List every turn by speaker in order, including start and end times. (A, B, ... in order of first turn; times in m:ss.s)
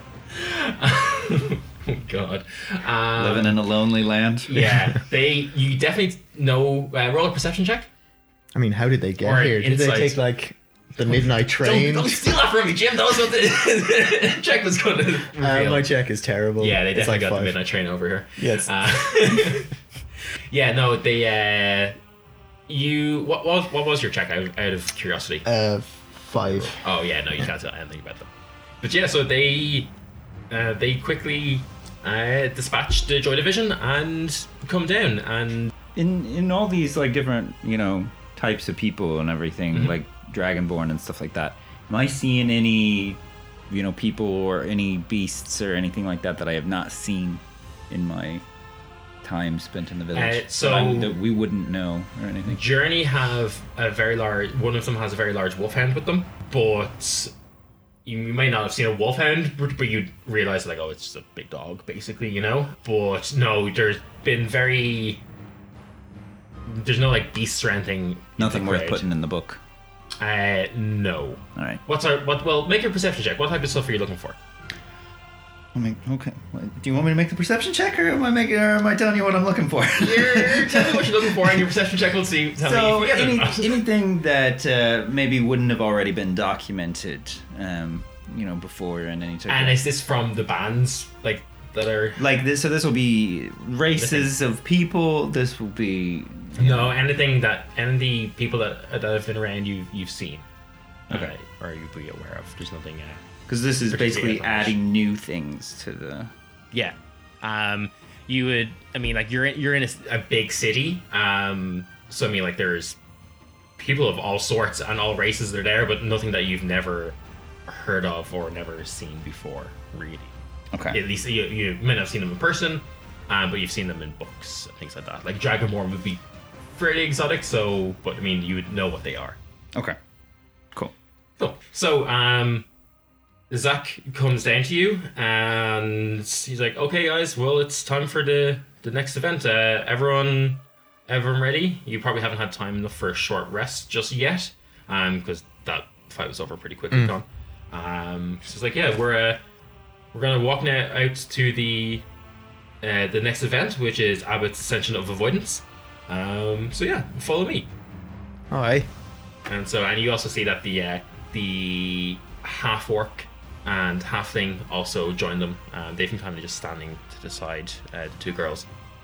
0:00.3-0:03.6 A
0:03.2-0:04.8 B
0:04.5-0:07.9 A
0:08.5-0:12.2 C
0:09.2-0:10.2 A
0:11.1-0:15.9 A
0:15.3-0:17.6 C
0:16.6-0:19.7 A
0:18.4-0:18.7 C
0:20.5-0:22.0 A
0:22.7-0:25.4 A
0:25.4-0:26.8 C
0:26.5-0:28.3 A
0:28.8-0:29.9 A
0:30.5-0:35.7 A
0:36.0-0:48.4 B
0:39.7-0:40.0 A
0:49.2-0:52.6 B
0:50.2-0:51.2 A
0:52.5-0:57.3 A
0:58.1-1:05.2 A
1:06.7-1:09.0 A
1:08.4-1:09.6 B
1:10.2-1:14.4 A
1:11.6-1:11.8 B
1:15.7-1:21.5 B
1:20.0-1:23.8 A
1:22.6-1:29.8 B
1:29.5-1:32.2 A
1:32.2-1:36.9 B
1:34.0-1:34.3 A
1:36.6-1:40.5 A
1:41.1-1:43.2 A
1:43.5-1:46.3 B
1:43.8-1:44.8 A
1:46.7-1:53.0 A
1:53.8-2:00.3 A
2:00.7-2:01.0 B
2:00.9-2:06.2 A
2:06.7-2:09.4 A
2:11.4-2:12.7 A
2:13.5-2:29.4 A
2:30.1-2:32.0 A
2:32.8-2:37.7 A
2:38.5-2:38.9 C
2:39.5-2:48.7 A